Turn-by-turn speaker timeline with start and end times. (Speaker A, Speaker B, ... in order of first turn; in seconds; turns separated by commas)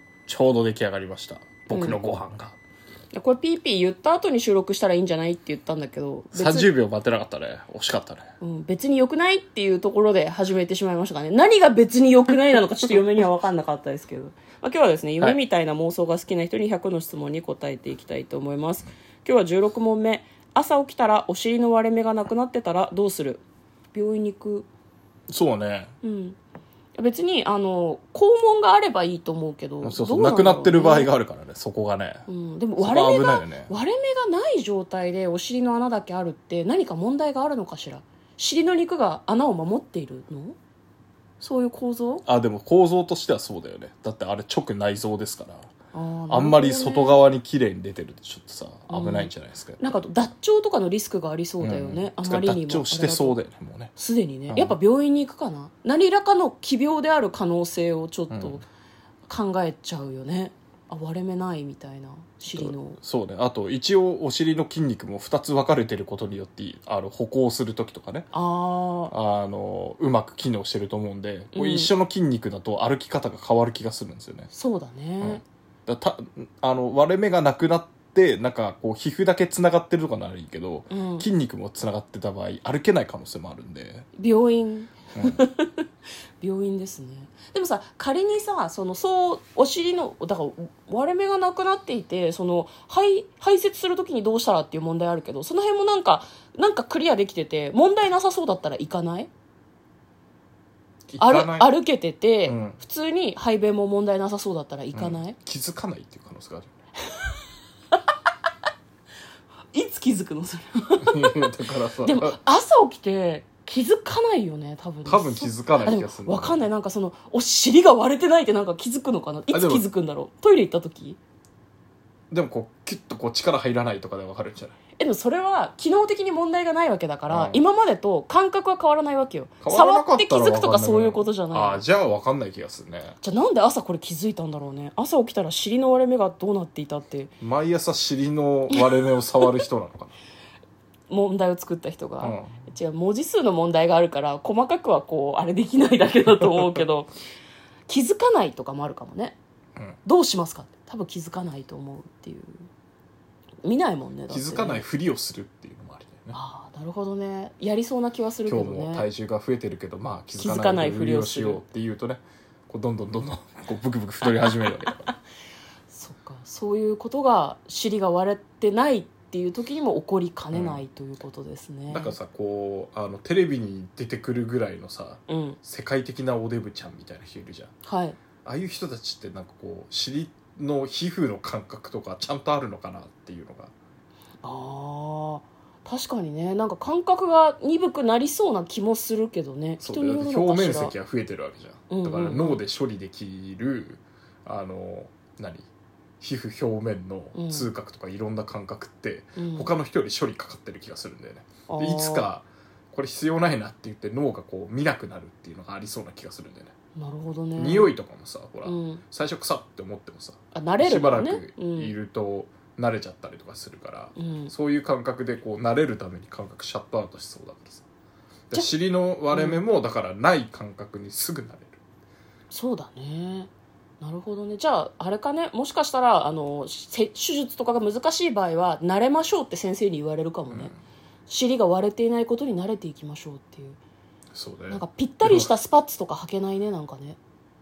Speaker A: 0.3-2.6, Speaker B: 1.7-2.0, Speaker B: 3.1-6.7, Speaker A: 6.3-8.3, Speaker B: 8.4-23.4, Speaker B: 23.9-24.7, Speaker A: 25.3-25.9, Speaker B: 26.0-26.4, Speaker B: 27.0-31.1, Speaker A: 29.8-32.3, Speaker B: 32.3-40.6, Speaker A: 32.8-33.7, Speaker B: 41.4-42.2, Speaker A: 42.3-45.7, Speaker B: 45.9-47.2, Speaker A: 46.3-50.1, Speaker B: 48.9-53.4, Speaker A: 51.6-53.9, Speaker B: 54.0-58.6, Speaker A: 54.5-54.8, Speaker A: 58.3-58.6, Speaker B: 59.3-63.0, Speaker A: 62.5-68.3, Speaker B: 68.3-69.1, Speaker A: 69.1-74.5, Speaker B: 71.5-71.9, Speaker B: 74.5-75.4, Speaker A: 75.2-84.1, Speaker B: 80.9-81.3, Speaker B: 84.2-85.9, Speaker A: 85.2-85.4, Speaker B: 86.4-99.3, Speaker A: 101.1-101.7, Speaker B: 101.2-105.4, Speaker A: 102.5-102.8, Speaker A: 104.9-106.7, Speaker B: 109.7-111.5, Speaker A: 111.0-112.4, Speaker B: 112.0-121.2, Speaker A: 115.0-116.7, Speaker A: 119.5-119.9, Speaker A: 122.3-124.8, Speaker B: 125.0-131.8, Speaker A: 127.3-127.6, Speaker A: 129.6-133.2, Speaker B: 133.2-137.3, Speaker A: 137.4-140.1, Speaker B: 141.1-147.1, Speaker A: 142.2-142.7, Speaker B: 147.9-149.4, Speaker B: 150.0-152.7, Speaker B: 153.6-154.8, Speaker A: 154.3-156.4, Speaker B: 156.3-159.1, Speaker A: 158.4-165.1, Speaker B: 160.4-161.6, Speaker B: 164.4-165.1, Speaker B: 165.9-172.2, Speaker A: 170.5-170.8, Speaker A: 171.9-177.7, Speaker B: 175.3-175.6, Speaker B: 177.8-178.2, Speaker A: 178.4-183.7, Speaker B: 184.4-190.9, Speaker A: 189.8-195.7, Speaker B: 191.9-192.6, Speaker A: 196.2-206.7, Speaker B: 197.3-197.7, Speaker B: 199.4-199.7, Speaker B: 201.7-202.3, Speaker B: 207.0-207.9, Speaker A: 207.6-217.8, Speaker B: 208.7-209.0, Speaker B: 210.5-211.9, Speaker B: 214.2-214.5, Speaker A: 218.5-221.8, Speaker B: 219.3-219.6, Speaker B: 222.5-223.5, Speaker B: 224.0-230.7, Speaker A: 230.5-230.8, Speaker B: 231.3-233.8, Speaker A: 234.3-235.5, Speaker B: 234.7-237.2